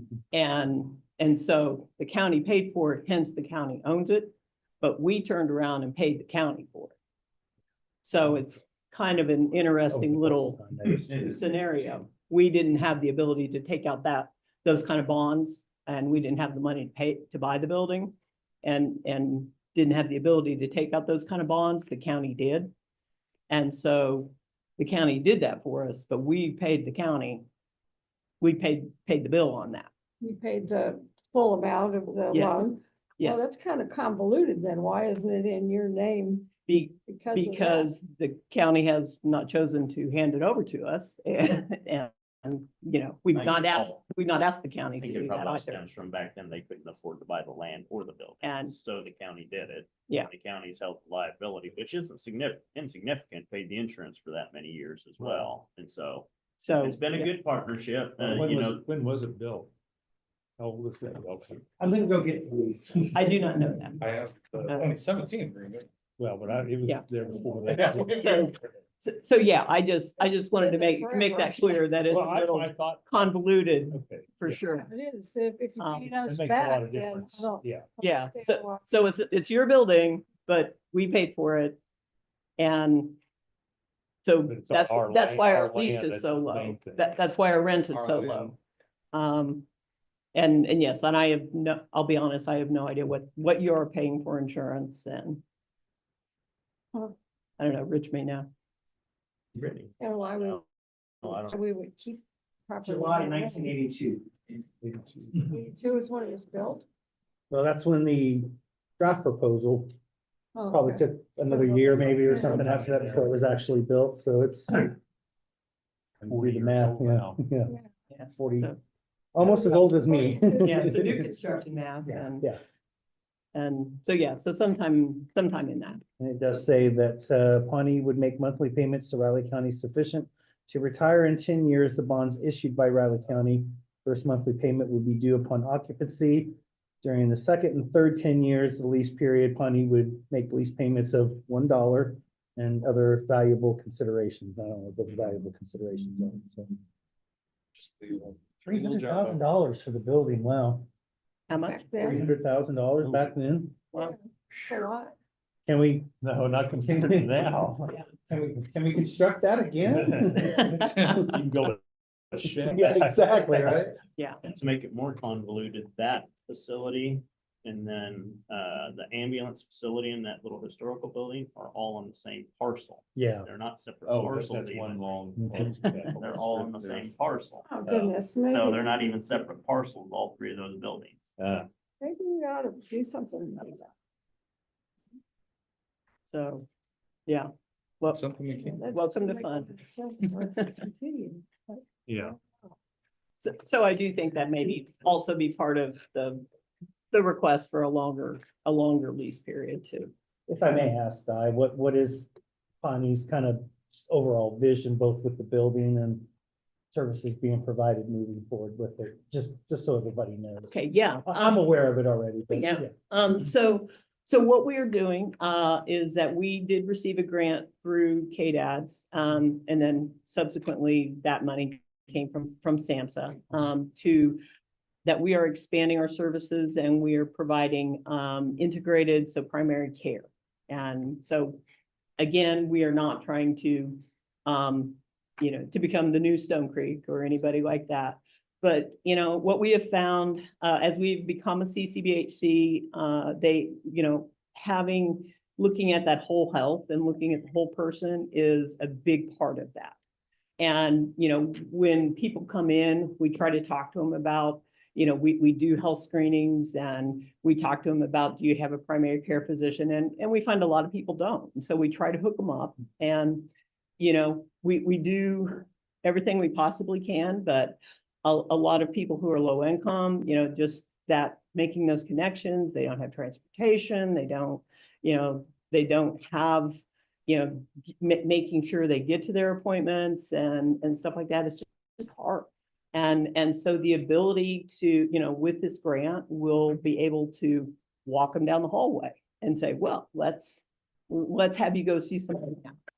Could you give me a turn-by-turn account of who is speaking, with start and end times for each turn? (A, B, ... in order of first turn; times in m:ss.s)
0:00.3-0:07.0 A
0:08.0-0:22.7 A
0:09.9-0:11.4 B
0:23.5-0:27.5 A
0:28.4-0:29.9 A
0:30.2-0:37.9 C
0:32.3-0:33.5 A
0:36.7-0:45.9 A
0:43.3-0:44.0 D
0:45.0-0:58.8 D
0:48.4-0:48.7 A
0:55.2-0:55.5 E
0:56.6-0:57.3 A
0:58.2-0:59.7 E
1:00.6-1:01.7 E
1:01.8-1:03.7 B
1:03.1-1:04.0 A
1:04.0-1:05.9 F
1:04.6-1:04.9 A
1:06.2-1:08.3 E
1:07.7-1:08.5 F
1:08.1-1:14.9 A
1:10.2-1:11.8 C
1:12.1-1:13.3 E
1:13.9-1:14.6 E
1:14.8-1:18.8 C
1:15.8-1:16.1 A
1:16.3-1:17.9 E
1:18.0-1:21.8 A
1:22.6-1:23.2 A
1:24.2-1:28.6 A
1:24.4-1:27.1 E
1:27.9-1:28.6 F
1:29.1-1:29.7 A
1:30.3-1:35.4 A
1:37.6-1:38.5 A
1:39.6-1:40.7 D
1:40.0-1:40.6 C
1:41.2-1:41.6 D
1:41.3-1:43.7 C
1:42.8-1:44.3 B
1:44.8-1:45.4 F
1:45.5-1:46.8 C
1:47.5-1:49.9 B
1:50.6-1:52.7 C
1:50.7-1:55.0 B
1:51.8-1:53.4 E
1:56.2-1:57.8 B
1:56.3-1:57.4 E
1:58.1-1:58.8 A
1:58.3-1:58.7 B
1:59.3-2:01.2 B
1:59.4-2:01.0 C
2:00.6-2:02.5 A
2:02.0-2:02.6 B
2:03.5-2:06.0 A
2:06.2-2:26.8 B
2:27.7-2:29.4 F
2:28.7-2:30.9 B
2:31.5-2:32.0 A
2:31.5-2:32.3 C
2:32.0-2:33.8 B
2:33.0-2:33.3 E
2:33.9-2:35.1 C
2:35.7-2:36.1 B
2:36.2-2:38.0 E
2:36.8-2:37.7 B
2:38.2-2:41.4 B
2:39.8-2:43.9 E
2:42.7-2:44.0 B
2:44.4-3:01.7 D
2:53.2-2:53.5 B
2:54.0-2:57.1 E
2:57.7-2:58.9 C
3:02.0-3:03.9 C
3:06.3-3:06.7 A
3:07.3-3:08.2 A
3:08.0-3:08.8 F
3:08.5-3:12.7 C
3:08.9-3:09.8 A
3:12.1-3:12.4 E
3:13.4-3:16.4 A
3:17.1-3:20.1 A
3:20.5-3:22.3 B
3:22.8-3:26.3 B
3:26.9-3:32.9 B
3:30.7-3:31.6 A
3:32.5-3:44.4 A
3:45.0-3:51.6 A
3:52.2-4:10.0 A
4:10.6-4:52.8 A